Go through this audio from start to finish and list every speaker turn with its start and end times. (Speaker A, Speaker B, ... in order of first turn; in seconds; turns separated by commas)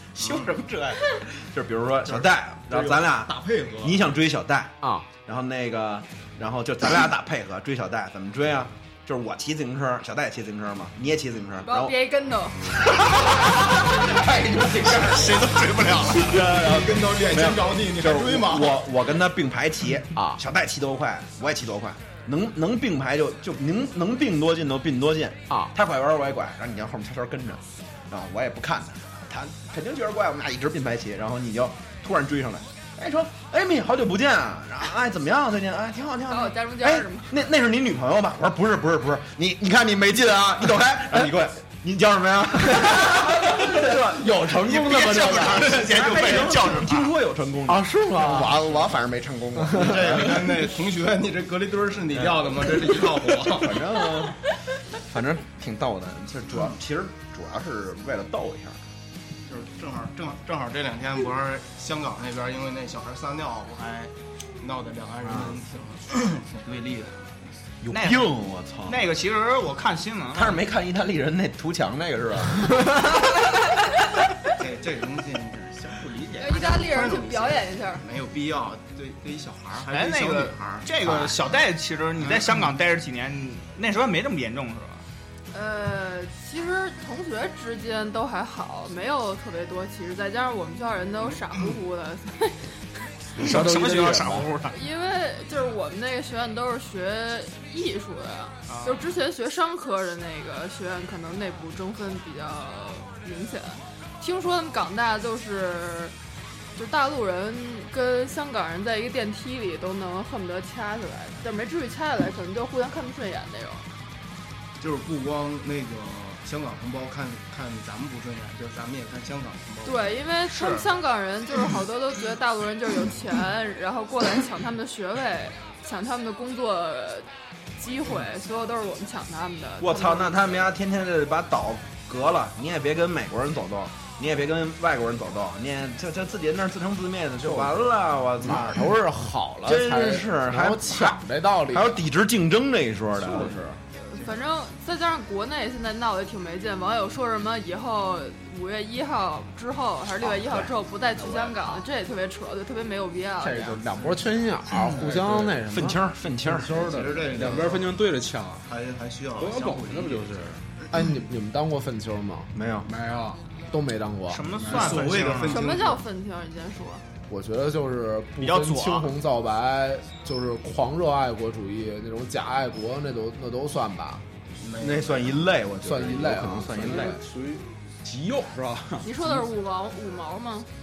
Speaker A: 0.1-12.0, Speaker B: 0.2-0.7, Speaker B: 2.0-4.0, Speaker C: 4.8-5.1, Speaker D: 11.6-12.6, Speaker A: 13.1-15.6, Speaker E: 14.8-16.4, Speaker A: 16.1-44.7, Speaker B: 16.3-18.8, Speaker D: 36.3-37.3, Speaker C: 42.7-45.9, Speaker E: 44.6-47.1, Speaker A: 45.5-50.5, Speaker C: 47.7-48.5, Speaker C: 49.6-50.0, Speaker B: 49.8-53.9, Speaker A: 53.5-54.4, Speaker A: 55.0-58.8, Speaker B: 59.5-67.5, Speaker A: 67.8-69.1, Speaker E: 67.9-68.3, Speaker E: 68.9-70.6, Speaker A: 70.3-72.9, Speaker B: 74.5-81.3, Speaker D: 76.4-78.0, Speaker E: 79.9-85.0, Speaker D: 85.5-92.7, Speaker C: 93.4-94.5, Speaker E: 93.4-94.8, Speaker D: 94.7-106.1, Speaker E: 98.7-99.0, Speaker D: 106.8-113.9, Speaker B: 114.8-120.2, Speaker D: 119.8-130.6, Speaker E: 120.5-120.8, Speaker A: 129.8-138.9, Speaker C: 137.4-137.9, Speaker C: 138.4-142.0, Speaker A: 139.6-143.8, Speaker D: 144.0-153.8, Speaker A: 150.2-150.7, Speaker C: 153.4-157.4, Speaker F: 155.0-155.6, Speaker A: 155.6-156.8, Speaker B: 156.7-158.0, Speaker F: 157.3-158.7, Speaker B: 158.6-160.4, Speaker F: 159.4-160.6, Speaker C: 160.9-162.5, Speaker A: 162.5-162.9, Speaker F: 162.9-163.4, Speaker C: 163.7-164.5, Speaker E: 164.3-165.7, Speaker F: 164.5-165.3, Speaker B: 164.7-166.0, Speaker D: 165.5-167.0, Speaker C: 167.3-174.2, Speaker E: 168.4-169.1, Speaker B: 174.6-175.4, Speaker A: 174.8-177.2, Speaker C: 175.8-177.2, Speaker F: 176.8-179.4, Speaker D: 179.0-180.7